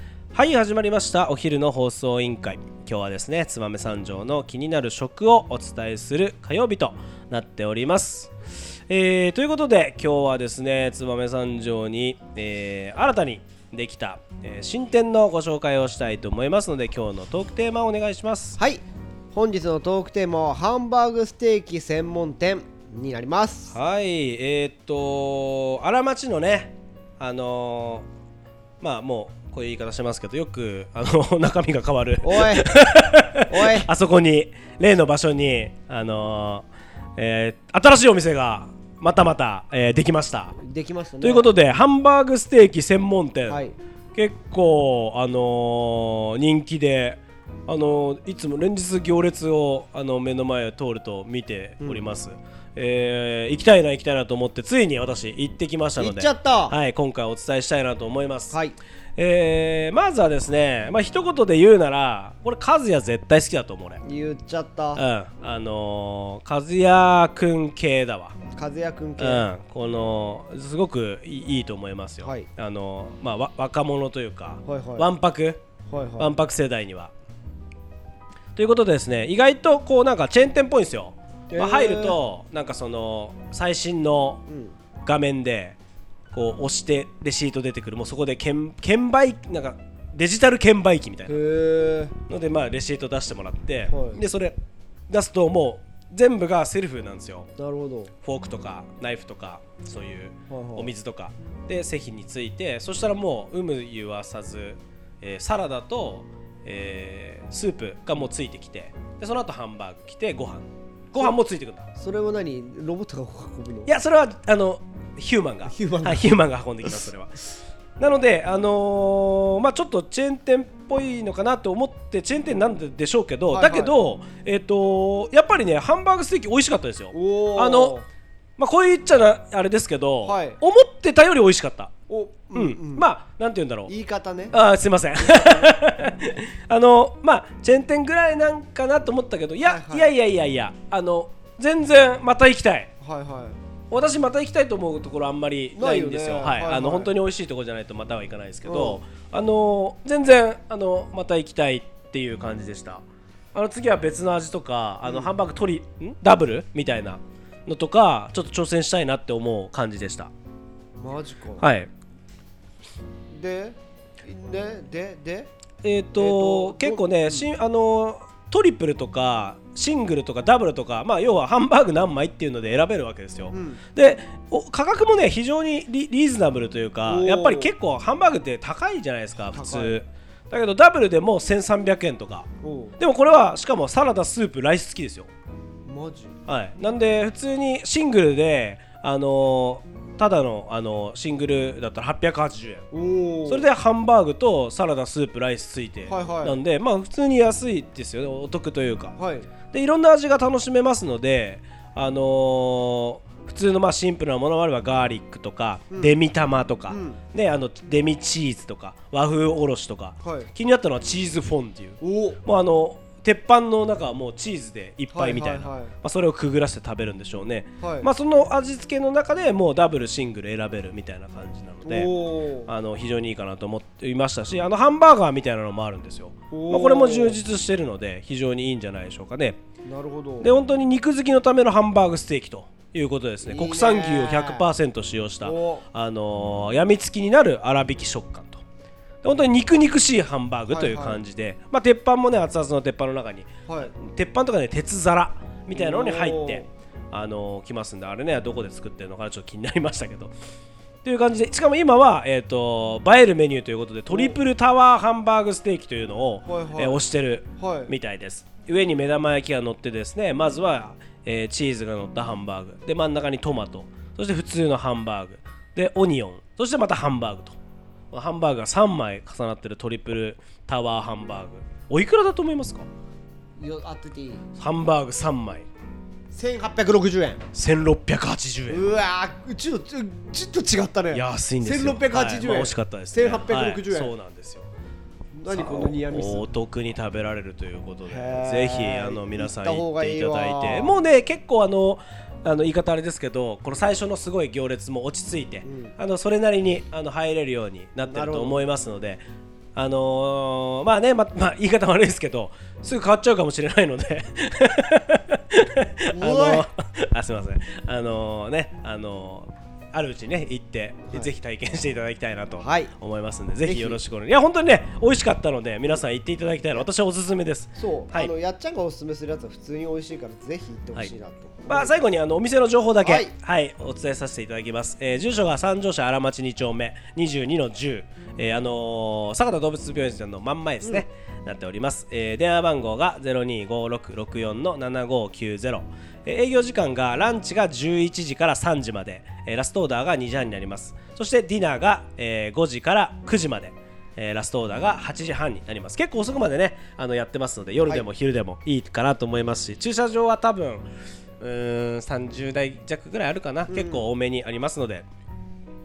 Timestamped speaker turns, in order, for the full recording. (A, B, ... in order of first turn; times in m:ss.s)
0:00.3-0:08.3 A
0:08.9-0:18.6 A
0:18.6-0:23.8 B
0:23.7-0:28.1 A
0:28.8-0:40.6 A
0:32.2-0:32.7 B
0:33.4-0:33.9 B
0:40.6-0:41.5 B
0:41.2-0:43.6 A
0:43.5-0:43.8 B
0:44.1-0:58.5 A
0:51.8-0:52.1 B
0:56.0-0:56.8 B
0:58.5-0:58.8 B
0:59.2-1:04.0 A
1:04.0-1:05.0 B
1:05.0-1:08.4 A
1:08.5-1:09.5 B
1:09.2-1:15.6 A
1:12.2-1:12.5 B
1:14.6-1:15.1 B
1:15.9-1:16.3 B
1:16.2-1:17.1 A
1:18.6-1:24.4 A
1:21.5-1:22.2 B
1:24.5-1:24.8 B
1:25.0-1:25.8 A
1:26.3-1:31.4 A
1:31.3-1:32.2 B
1:32.3-1:34.6 A
1:33.9-1:34.2 B
1:35.1-1:37.5 A
1:37.6-1:38.1 B
1:38.2-1:51.9 A
1:40.5-1:40.9 B
1:52.0-1:53.9 B
1:53.8-1:57.4 A
1:55.6-1:56.9 B
1:58.0-2:08.0 A
2:03.5-2:04.0 B
2:07.1-2:08.1 B
2:08.6-2:11.9 A
2:10.2-2:10.6 B
2:12.1-2:13.0 B
2:12.5-2:13.9 A
2:13.9-2:14.6 B
2:14.5-2:22.9 A
2:15.2-2:15.7 B
2:19.6-2:20.1 B
2:23.0-2:23.6 B
2:23.9-2:40.3 A
2:25.8-2:27.1 B
2:28.6-2:29.0 B
2:35.0-2:35.4 B
2:41.0-2:41.7 B
2:41.6-2:41.9 A
2:43.3-2:45.5 B
2:45.8-3:05.3 A
2:46.1-2:47.5 B
2:53.5-2:53.8 B
2:57.0-2:57.7 B
2:59.4-3:00.0 B
3:02.6-3:03.0 B
3:05.8-3:06.3 B
3:06.5-3:12.8 A
3:12.9-3:13.7 B
3:13.4-3:19.2 A
3:16.1-3:16.6 B
3:19.2-3:19.5 B
3:19.7-3:42.1 A
3:25.9-3:26.2 B
3:26.9-3:27.2 B
3:30.2-3:30.5 B
3:32.0-3:32.4 B
3:35.1-3:35.9 B
3:37.8-3:38.1 B
3:41.8-3:42.7 B
3:42.6-3:49.6 A
3:46.5-3:47.4 B
3:49.8-3:50.5 B
3:50.4-3:58.6 A
3:53.4-3:54.7 B
3:55.4-3:55.8 B
3:59.2-4:10.3 A
4:00.7-4:01.2 B
4:03.7-4:03.9 B
4:05.7-4:06.7 B
4:11.0-4:27.6 A
4:14.1-4:14.4 B
4:16.4-4:17.0 B
4:17.6-4:17.9 B
4:28.1-4:32.9 A
4:33.6-4:34.4 B
4:34.6-4:35.7 A
4:36.3-4:37.4 B
4:37.5-4:38.9 A
4:38.7-4:44.1 B
4:41.1-4:44.7 A
4:45.3-4:46.5 B
4:45.5-4:59.2 A
4:48.0-4:51.0 B
4:55.6-4:55.9 B
4:58.1-4:58.7 B
4:59.8-5:18.3 A
5:06.1-5:06.7 B
5:12.6-5:12.9 B
5:13.6-5:14.0 B
5:17.7-5:22.0 B
5:21.7-5:50.8 A
5:23.0-5:23.3 B
5:51.4-5:55.0 A
5:53.7-5:54.1 B